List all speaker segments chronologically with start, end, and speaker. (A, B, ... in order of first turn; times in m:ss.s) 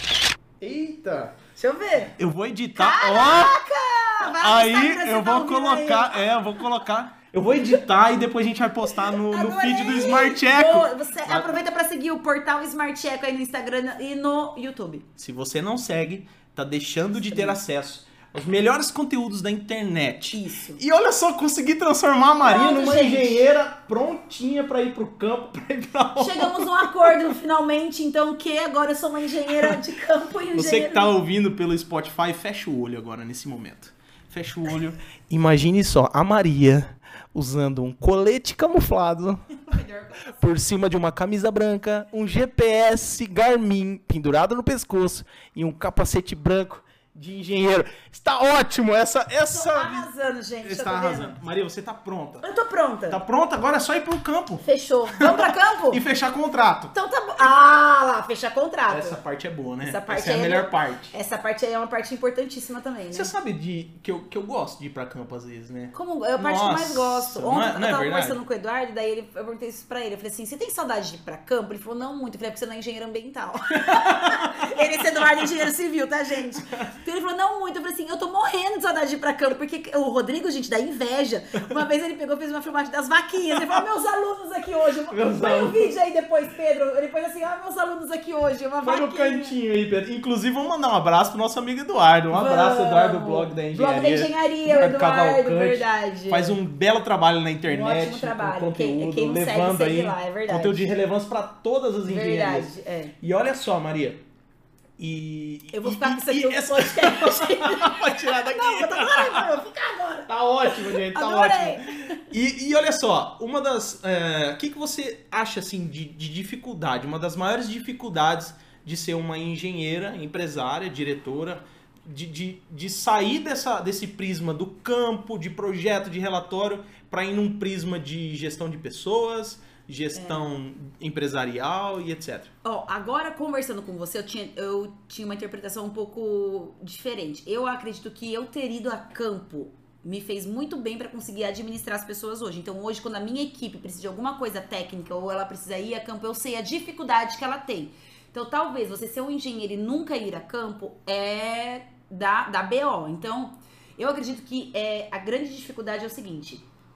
0:00.6-0:01.4 A
0:01.6-0:02.1 B
0:02.2-0:03.6 A
0:02.8-0:06.6 B
0:04.3-0:11.6 A
0:08.9-0:15.1 B
0:15.2-0:27.2 A
0:17.2-0:17.6 B
0:20.3-0:20.8 B
0:22.4-0:23.4 B
0:26.2-0:31.1 B
0:29.5-0:29.8 A
0:30.5-0:39.6 A
0:39.7-0:40.4 B
0:40.3-0:50.1 A
0:49.5-0:51.4 B
0:50.6-0:52.5 A
0:52.4-0:53.2 B
0:53.1-0:55.4 A
0:54.6-0:56.0 B
0:55.9-0:57.5 A
0:56.9-0:59.2 B
0:58.9-1:01.1 A
0:59.8-1:03.3 B
1:03.1-1:08.4 A
1:05.9-1:29.6 B
1:13.9-1:14.7 A
1:23.6-1:23.8 A
1:25.1-1:25.9 A
1:28.8-1:44.2 A
1:32.3-1:36.6 B
1:37.7-1:40.9 B
1:42.0-1:43.1 B
1:45.0-1:49.5 A
1:45.7-1:52.2 B
1:50.3-2:12.5 A
2:10.2-2:10.5 B
2:12.6-2:36.7 B